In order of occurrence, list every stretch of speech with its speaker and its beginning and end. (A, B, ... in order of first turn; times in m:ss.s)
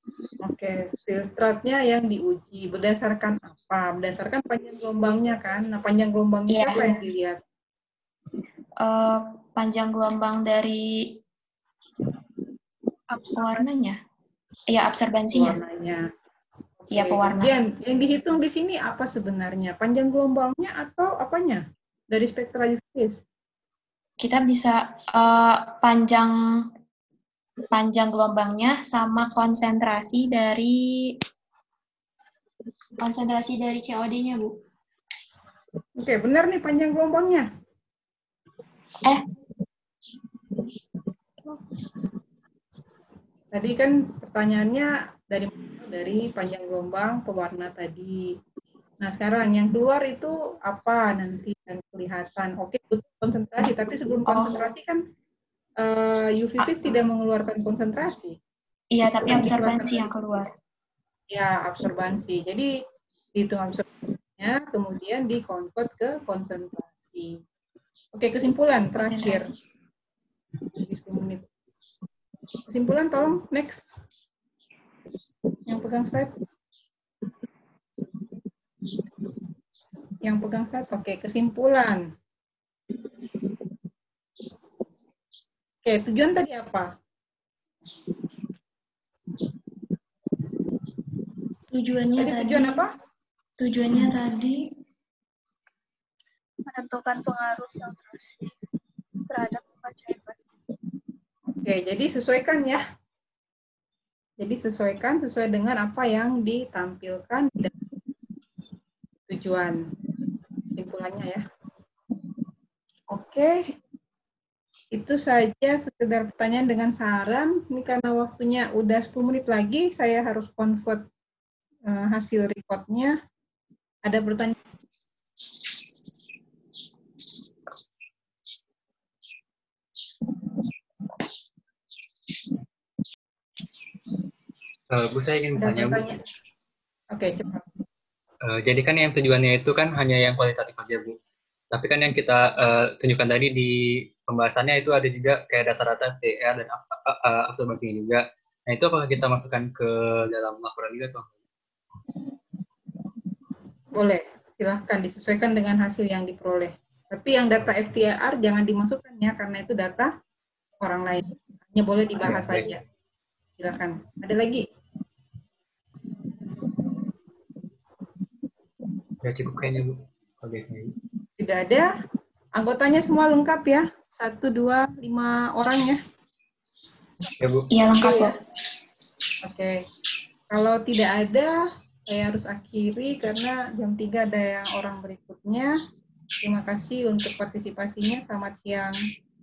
0:00.4-0:07.4 A
0:06.5-0:07.0 B
0:08.8-0:11.2 B
0:13.1-0:13.7 C
0:13.4-0:14.0 B
0:14.7-0:15.6 B
0:15.3-0:16.1 A
0:16.8-0:23.2 A
0:16.9-0:17.5 B
0:24.2-0:26.4 B
0:27.7-0:31.1 B
0:33.0-0:34.5 B
0:36.0-0:37.5 A
0:43.5-0:48.2 A
0:49.0-0:55.0 A
0:54.3-0:54.7 B
0:55.8-0:58.4 A
0:58.9-1:00.5 B
0:59.2-1:00.1 A
1:01.3-1:02.7 A
1:03.4-1:07.4 A
1:08.1-1:09.5 A
1:09.0-1:09.5 B
1:10.8-1:11.4 A
1:12.7-1:14.0 A
1:15.7-1:16.3 A
1:20.2-1:22.1 A
1:25.8-1:26.9 A
1:31.7-1:32.8 D
1:32.2-1:32.9 A
1:33.6-1:34.6 D
1:36.7-1:38.5 C
1:39.3-1:40.4 C
1:41.5-1:42.8 A
1:44.4-1:47.7 A
1:49.3-1:49.8 A
1:50.7-1:51.4 A
1:53.1-1:53.6 A
1:54.9-2:01.0 A
2:01.9-2:03.1 A
2:04.0-2:04.6 A
2:14.9-2:16.1 E
2:15.6-2:16.2 A
2:17.1-2:17.7 A
2:18.4-2:21.2 E
2:21.7-2:31.4 E
2:33.9-2:40.1 A
2:40.8-2:42.8 A
2:42.2-2:42.8 E
2:43.6-2:44.7 A
2:49.2-2:51.0 E
2:51.4-2:51.9 A
2:52.6-2:56.0 A
2:57.4-2:57.7 E
2:57.7-2:58.4 B
2:58.0-2:58.3 A
2:59.4-2:59.8 A
3:00.5-3:01.6 A
3:02.1-3:05.8 A
3:06.4-3:09.0 A